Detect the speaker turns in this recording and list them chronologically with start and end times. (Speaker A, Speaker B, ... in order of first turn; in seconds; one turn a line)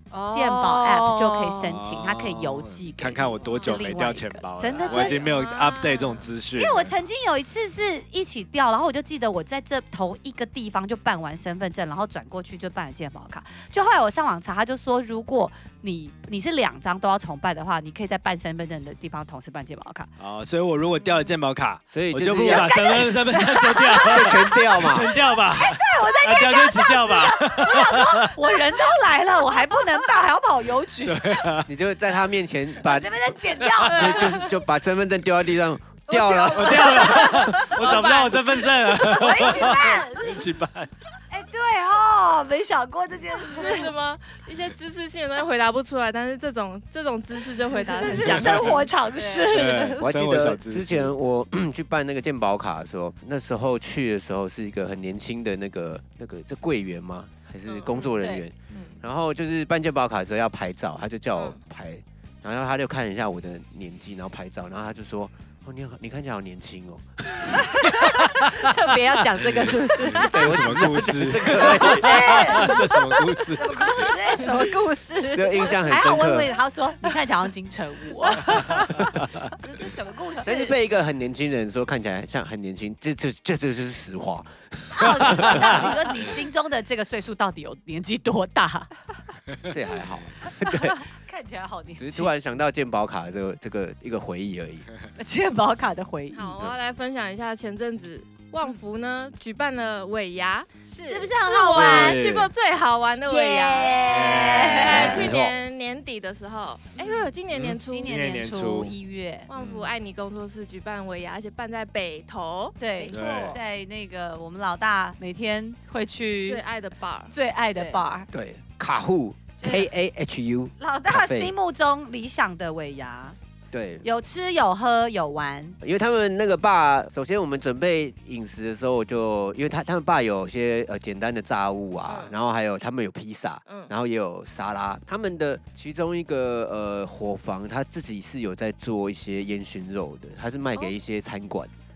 Speaker A: 0.1-1.7
Speaker B: 0.3-5.2
Speaker C: 1.6-6.9
Speaker D: 4.8-6.3
Speaker B: 6.5-20.1
Speaker C: 20.2-28.4
Speaker E: 21.9-22.8
Speaker B: 22.4-24.5
Speaker E: 24.0-25.1
Speaker B: 25.1-31.4
Speaker C: 31.1-31.7
Speaker E: 31.6-37.0
Speaker B: 32.8-34.5
Speaker C: 33.8-34.1
Speaker A: 36.1-37.8
Speaker C: 36.5-40.9
Speaker B: 36.9-38.4
Speaker B: 39.0-40.5
Speaker B: 41.3-43.9
Speaker D: 43.4-48.9
Speaker A: 47.8-49.7
Speaker B: 47.9-50.0
Speaker C: 48.0-48.8
Speaker C: 49.5-51.1
Speaker E: 50.0-67.8
Speaker D: 57.6-58.1
Speaker A: 67.5-70.8
Speaker C: 68.0-68.7
Speaker C: 69.4-74.1
Speaker E: 70.1-72.3
Speaker A: 71.7-75.9
Speaker B: 71.8-72.9
Speaker B: 73.6-74.7
Speaker E: 75.3-76.5
Speaker B: 75.8-78.9
Speaker A: 78.3-78.8
Speaker C: 78.5-79.5
Speaker B: 79.6-80.7
Speaker E: 80.4-85.9
Speaker B: 84.9-89.0
Speaker C: 85.4-85.8
Speaker E: 89.6-91.0
Speaker B: 90.5-92.3
Speaker E: 92.0-94.9
Speaker B: 95.2-96.5
Speaker D: 96.3-100.7
Speaker A: 100.9-101.4
Speaker B: 101.0-102.2
Speaker D: 101.4-108.1
Speaker C: 101.7-102.5
Speaker B: 103.3-105.3
Speaker C: 104.0-105.3
Speaker E: 104.8-105.5
Speaker C: 107.5-109.0
Speaker B: 107.8-109.5
Speaker D: 109.5-112.8
Speaker C: 109.6-109.9
Speaker B: 112.8-116.6
Speaker A: 113.0-113.6
Speaker C: 113.1-113.6
Speaker D: 116.4-117.3
Speaker B: 117.3-118.3
Speaker A: 117.7-118.1
Speaker E: 118.3-121.5
Speaker B: 119.6-119.9
Speaker B: 120.8-123.3
Speaker E: 123.7-124.0
Speaker B: 124.0-125.8
Speaker E: 125.8-141.7
Speaker D: 132.1-132.3